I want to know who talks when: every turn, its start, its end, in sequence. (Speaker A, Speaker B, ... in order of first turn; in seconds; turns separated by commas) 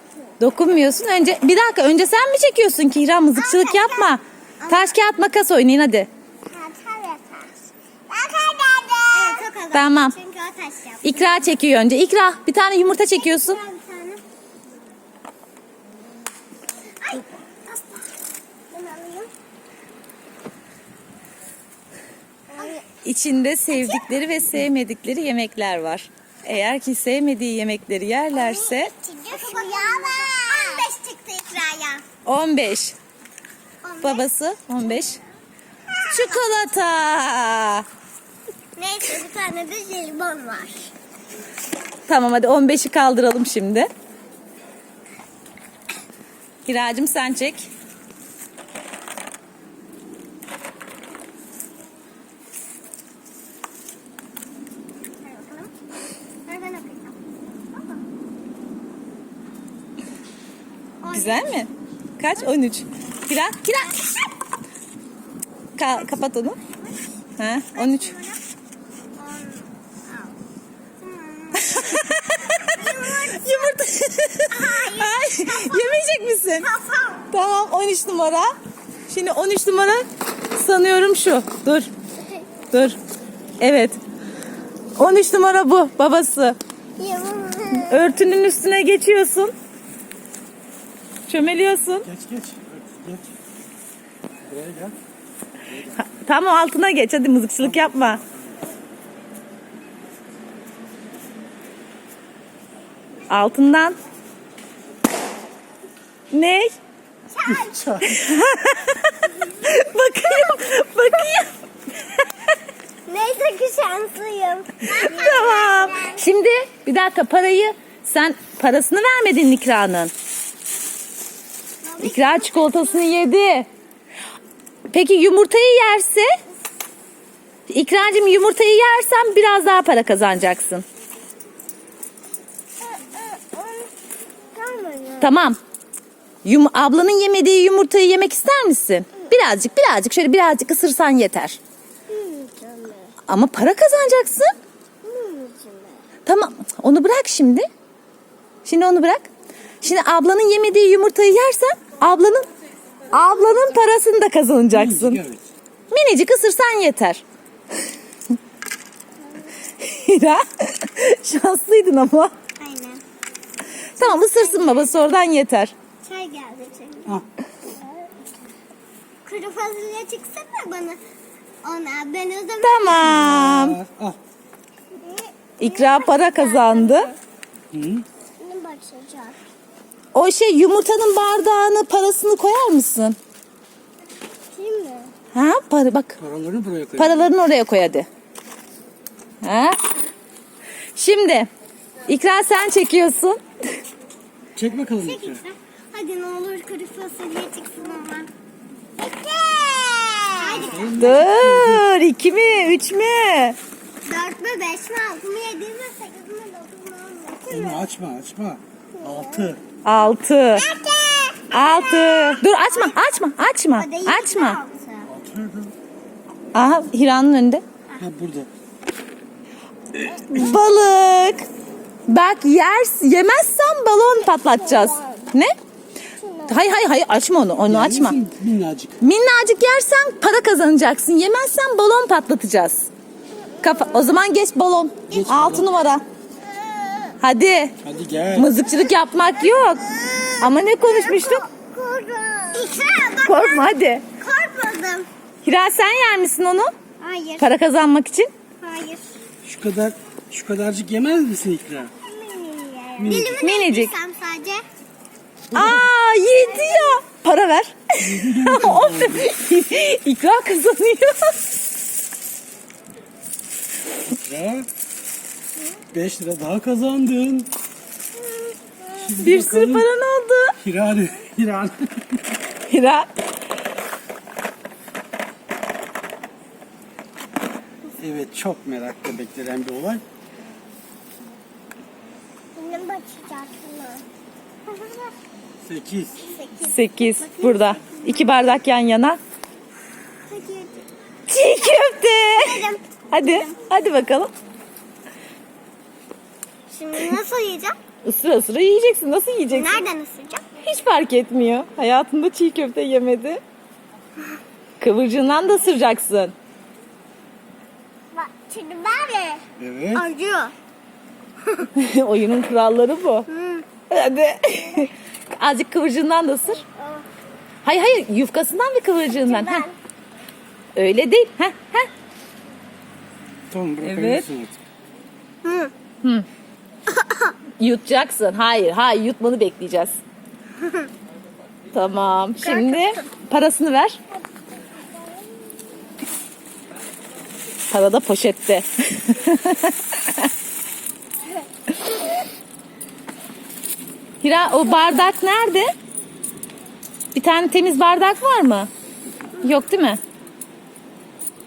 Speaker A: 0.4-6.1, Speaker B: 3.4-4.9, Speaker B: 6.5-7.4, Speaker B: 8.1-11.5, Speaker A: 9.7-10.2, Speaker A: 11.0-13.6, Speaker B: 13.1-14.2, Speaker B: 17.0-18.1, Speaker B: 18.7-19.3, Speaker B: 22.5-22.8, Speaker A: 23.0-28.9, Speaker B: 23.8-24.0, Speaker B: 28.5-32.0, Speaker A: 32.2-33.0, Speaker B: 33.8-34.2, Speaker A: 34.0-35.2, Speaker A: 36.1-37.9, Speaker B: 38.8-40.9, Speaker A: 42.1-43.9, Speaker A: 46.6-47.7, Speaker B: 55.2-55.7, Speaker B: 56.5-57.2, Speaker B: 57.7-58.0, Speaker B: 61.0-61.6, Speaker A: 61.1-64.0, Speaker A: 65.8-66.6, Speaker A: 67.4-68.1, Speaker B: 67.7-68.4, Speaker B: 69.2-70.3, Speaker B: 71.0-72.0, Speaker A: 71.6-76.7, Speaker B: 72.6-73.7, Speaker B: 74.5-77.3, Speaker A: 77.3-78.5, Speaker A: 79.1-81.9, Speaker A: 82.7-83.0, Speaker A: 83.6-84.0, Speaker A: 85.0-86.6, Speaker B: 87.0-88.0, Speaker A: 87.8-89.5, Speaker A: 91.3-92.1, Speaker C: 92.0-93.3, Speaker C: 94.4-95.0, Speaker C: 95.7-96.1, Speaker A: 96.1-98.2, Speaker C: 97.6-98.6, Speaker A: 103.3-104.0, Speaker A: 106.3-106.7, Speaker B: 107.3-107.8, Speaker C: 107.4-108.3, Speaker A: 108.0-111.5, Speaker B: 113.1-116.2, Speaker A: 114.9-120.1, Speaker B: 121.8-123.0, Speaker A: 122.0-123.7, Speaker A: 124.9-126.3, Speaker A: 127.7-130.8, Speaker B: 132.8-133.9, Speaker B: 134.5-135.2, Speaker A: 135.2-135.6, Speaker A: 136.4-141.6, Speaker B: 142.1-143.1, Speaker A: 143.3-144.5, Speaker B: 145.0-146.0, Speaker A: 146.2-147.7, Speaker A: 148.6-149.3, Speaker A: 149.8-152.5, Speaker A: 153.1-155.2, Speaker C: 154.7-155.4, Speaker A: 155.9-157.2, Speaker A: 159.8-162.3, Speaker B: 162.6-163.0, Speaker A: 164.0-165.7, Speaker B: 164.0-164.9, Speaker B: 166.0-167.2, Speaker B: 169.2-171.0, Speaker B: 171.6-173.1, Speaker A: 172.6-173.8, Speaker C: 173.0-174.2, Speaker B: 175.0-177.2, Speaker A: 175.6-177.1, Speaker C: 177.7-178.0, Speaker B: 178.4-179.3, Speaker A: 180.1-183.2, Speaker B: 184.5-185.1, Speaker A: 185.3-186.2, Speaker C: 186.2-187.3, Speaker A: 187.0-188.1, Speaker A: 189.4-189.8, Speaker A: 190.9-191.5, Speaker A: 192.1-193.4, Speaker C: 194.5-195.4, Speaker B: 195.0-198.3, Speaker B: 199.0-200.8, Speaker C: 200.5-201.9, Speaker A: 201.0-203.6, Speaker B: 204.1-207.8, Speaker C: 207.5-209.6, Speaker B: 209.0-209.5, Speaker A: 209.8-210.7, Speaker B: 210.5-213.0, Speaker A: 211.5-214.6, Speaker B: 213.8-215.1, Speaker C: 215.1-215.7, Speaker A: 216.5-217.6, Speaker C: 218.0-218.5, Speaker C: 219.9-220.5, Speaker A: 220.3-221.5, Speaker A: 222.1-225.5, Speaker B: 224.6-225.2, Speaker A: 226.5-228.2, Speaker C: 227.6-229.0, Speaker A: 229.0-232.9, Speaker A: 233.6-236.0, Speaker C: 235.1-235.7, Speaker B: 236.4-237.2, Speaker A: 237.2-237.7, Speaker C: 237.8-238.5, Speaker A: 238.3-239.8, Speaker B: 239.4-243.7, Speaker A: 240.4-241.4, Speaker A: 243.2-244.0, Speaker B: 244.2-245.1, Speaker A: 245.4-246.7, Speaker B: 247.0-247.4, Speaker A: 247.4-248.3, Speaker B: 248.6-249.0, Speaker C: 249.4-251.9, Speaker B: 252.1-254.6, Speaker C: 253.0-253.4, Speaker A: 253.4-253.9, Speaker C: 255.5-255.9, Speaker A: 255.5-261.4, Speaker B: 256.5-257.0, Speaker C: 258.0-259.3, Speaker C: 264.1-264.7, Speaker C: 265.9-267.5, Speaker C: 268.9-269.9, Speaker A: 269.2-270.6, Speaker C: 270.6-272.4, Speaker A: 272.7-273.1, Speaker C: 278.0-280.0, Speaker B: 282.6-284.0, Speaker B: 284.7-285.1, Speaker C: 285.6-286.1, Speaker B: 286.2-288.2, Speaker A: 286.6-289.2, Speaker B: 290.3-290.8, Speaker A: 291.3-294.3, Speaker B: 292.3-293.5, Speaker B: 296.7-297.8, Speaker A: 298.0-299.8, Speaker B: 299.5-300.4, Speaker A: 300.6-303.4, Speaker A: 304.8-306.3, Speaker B: 308.1-309.4, Speaker C: 309.6-310.1, Speaker B: 309.9-310.5, Speaker A: 311.7-313.3, Speaker B: 313.3-313.6, Speaker A: 313.9-316.6, Speaker B: 316.6-317.0, Speaker A: 317.6-319.6, Speaker B: 319.1-319.7, Speaker A: 320.8-321.9, Speaker C: 323.5-324.6, Speaker A: 323.8-324.2, Speaker B: 325.4-325.7, Speaker B: 327.0-327.3, Speaker A: 327.6-330.0, Speaker A: 331.7-334.0, Speaker B: 332.4-333.0, Speaker A: 337.7-340.3, Speaker A: 344.2-345.7, Speaker A: 347.1-348.7, Speaker A: 349.4-350.0